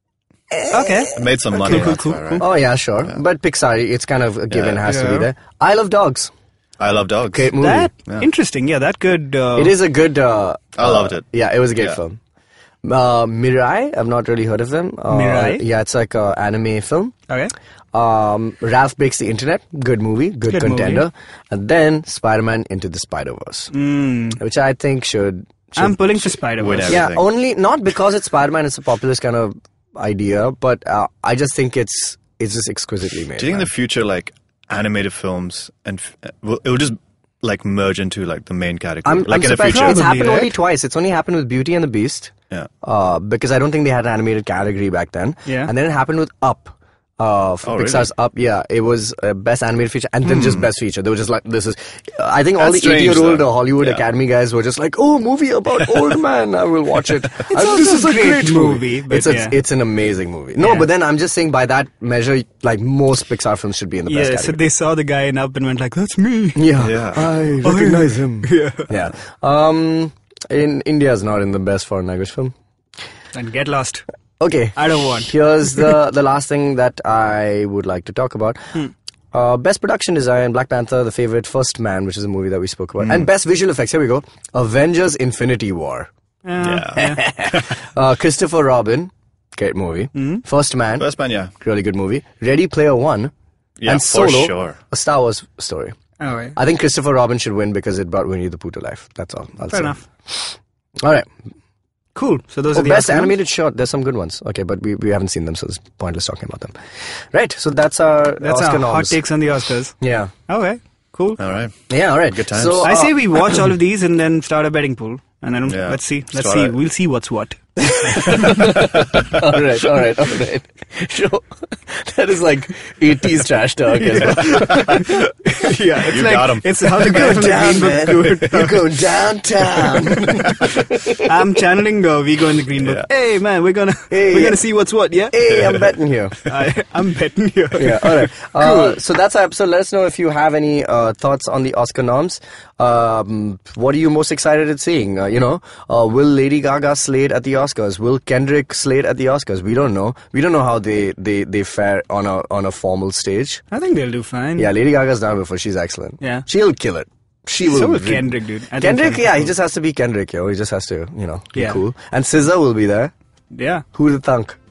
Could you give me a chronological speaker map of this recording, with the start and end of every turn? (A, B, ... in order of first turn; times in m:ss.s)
0:00.5-0:01.1 A
0:00.7-0:02.4 B
0:01.1-0:02.5 C
0:02.4-0:06.3 A
0:04.5-0:04.8 C
0:04.8-0:05.3 B
0:06.8-0:08.2 C
0:07.3-0:07.9 A
0:07.6-0:09.8 B
0:09.6-0:12.2 A
0:10.8-0:12.0 C
0:12.8-0:17.2 A
0:15.1-0:15.6 B
0:17.9-0:23.7 A
0:20.5-0:21.1 B
0:23.7-0:24.4 B
0:24.4-0:26.1 A
0:25.8-0:27.0 B
0:26.6-0:27.2 C
0:26.8-0:33.7 A
0:33.4-0:40.1 C
0:39.0-1:04.6 A
0:39.6-0:40.5 B
0:45.5-0:45.7 B
0:47.6-0:48.1 C
0:50.3-0:50.7 C
0:52.6-0:54.0 C
0:57.5-0:59.6 B
1:00.6-1:00.9 B
1:04.1-1:06.7 B
1:06.6-1:12.5 A
1:06.8-1:07.3 C
1:07.6-1:08.9 B
1:13.3-1:14.0 B
1:14.4-1:18.8 A
1:14.8-1:15.3 B
1:19.3-1:26.1 A
1:23.0-1:23.3 C
1:26.4-1:27.2 B
1:26.6-1:27.7 C
1:27.0-1:31.1 A
1:30.2-1:30.4 B
1:31.0-1:31.5 C
1:31.6-1:33.3 A
1:33.8-1:34.8 C
1:33.9-1:36.0 A
1:36.2-1:36.6 B
1:36.6-1:41.3 A
1:39.7-1:40.0 B
1:42.2-1:43.4 B
1:42.7-1:46.8 A
1:47.3-1:49.2 A
1:48.4-1:50.0 B
1:50.0-1:50.3 A
1:50.5-1:51.4 B
1:51.4-1:53.1 C
1:51.9-1:53.2 A
1:52.8-1:58.6 B
1:55.7-1:56.8 C
1:57.8-2:05.2 A
1:58.4-1:59.2 C
2:04.5-2:05.1 C
2:04.6-2:08.9 B
2:06.0-2:07.3 C
2:07.0-2:11.2 A
2:11.2-2:15.4 B
2:12.8-2:13.1 C
2:14.1-2:14.6 A
2:15.3-2:16.4 A
2:16.5-2:19.0 B
2:17.8-2:33.6 A
2:33.7-2:34.7 B
2:34.6-2:43.1 A
2:36.2-2:36.5 B
2:37.6-2:39.5 B
2:41.6-2:41.8 B
2:43.5-2:43.8 B
2:43.9-2:44.6 A